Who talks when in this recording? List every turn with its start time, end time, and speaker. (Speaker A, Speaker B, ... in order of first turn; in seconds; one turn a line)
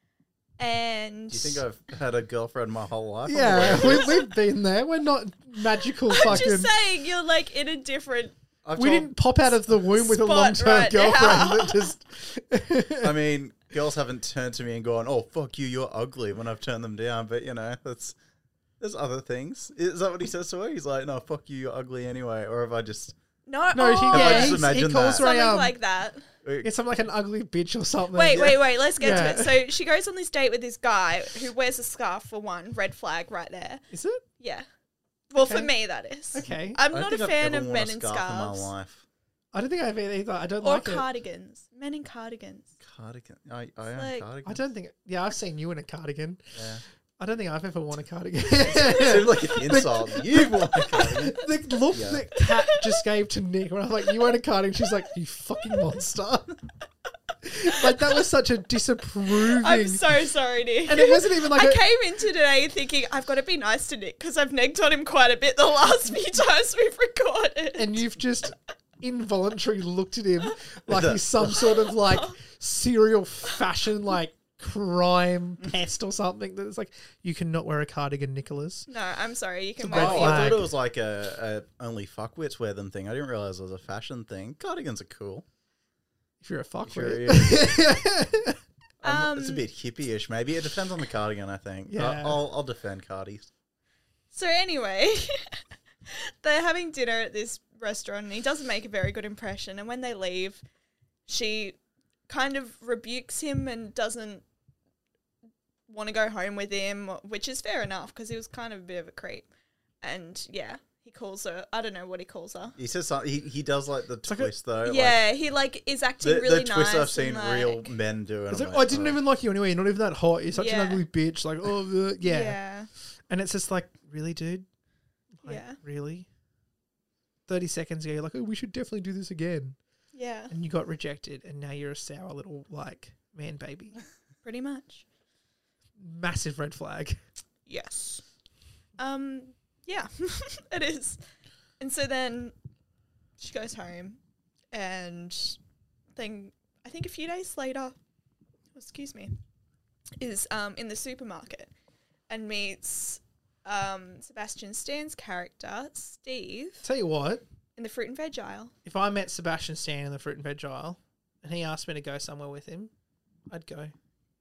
Speaker A: 0.6-1.6
Speaker B: 1.3-4.1
Speaker C: 3.2-6.7
Speaker A: 3.6-4.3
Speaker A: 6.1-8.3
Speaker B: 8.7-9.1
Speaker C: 8.8-13.1
Speaker A: 9.7-11.9
Speaker B: 13.0-18.2
Speaker B: 18.8-23.1
Speaker A: 23.5-26.3
Speaker C: 23.7-25.8
Speaker B: 24.1-25.3
Speaker B: 26.4-26.7
Speaker C: 26.6-29.6
Speaker A: 28.1-33.8
Speaker B: 28.3-28.6
Speaker C: 33.9-34.2
Speaker A: 34.4-34.7
Speaker A: 35.3-38.7
Speaker C: 35.4-35.7
Speaker C: 36.3-36.8
Speaker B: 36.9-39.0
Speaker C: 39.5-41.0
Speaker A: 40.6-42.7
Speaker B: 42.8-44.6
Speaker A: 44.0-44.2
Speaker C: 44.5-46.6
Speaker B: 46.5-46.8
Speaker C: 47.2-56.6
Speaker B: 48.7-52.2
Speaker A: 52.4-52.9
Speaker C: 57.4-60.0
Speaker A: 57.7-58.2
Speaker A: 59.3-68.0
Speaker C: 60.9-61.8
Speaker C: 67.8-78.9
Speaker B: 70.9-71.5
Speaker A: 71.5-72.4
Speaker A: 78.9-80.6
Speaker C: 79.8-80.7
Speaker B: 79.9-85.5
Speaker C: 86.4-88.6
Speaker B: 86.8-87.8
Speaker B: 89.0-93.5
Speaker A: 89.0-89.6
Speaker C: 91.9-92.4
Speaker A: 94.3-100.6
Speaker A: 101.3-101.8
Speaker A: 102.3-104.4
Speaker A: 105.9-109.5
Speaker A: 110.0-112.8
Speaker B: 112.8-115.2
Speaker C: 114.2-114.5
Speaker A: 114.8-117.9
Speaker B: 116.2-119.2
Speaker C: 118.5-122.6
Speaker A: 120.5-121.0
Speaker A: 122.2-122.9
Speaker C: 123.3-124.7
Speaker C: 125.4-126.3
Speaker A: 125.5-125.8
Speaker C: 127.5-129.8
Speaker A: 130.1-130.5
Speaker C: 130.5-134.0
Speaker A: 134.4-135.0
Speaker C: 136.0-137.2
Speaker A: 137.7-138.2
Speaker A: 139.0-141.2
Speaker A: 141.8-142.5
Speaker A: 143.4-144.2
Speaker A: 144.7-145.6
Speaker A: 146.2-147.9
Speaker A: 148.8-149.3
Speaker A: 150.2-151.7
Speaker A: 152.3-156.8
Speaker C: 156.8-157.4
Speaker A: 157.8-158.7
Speaker C: 158.8-162.9
Speaker C: 163.5-163.9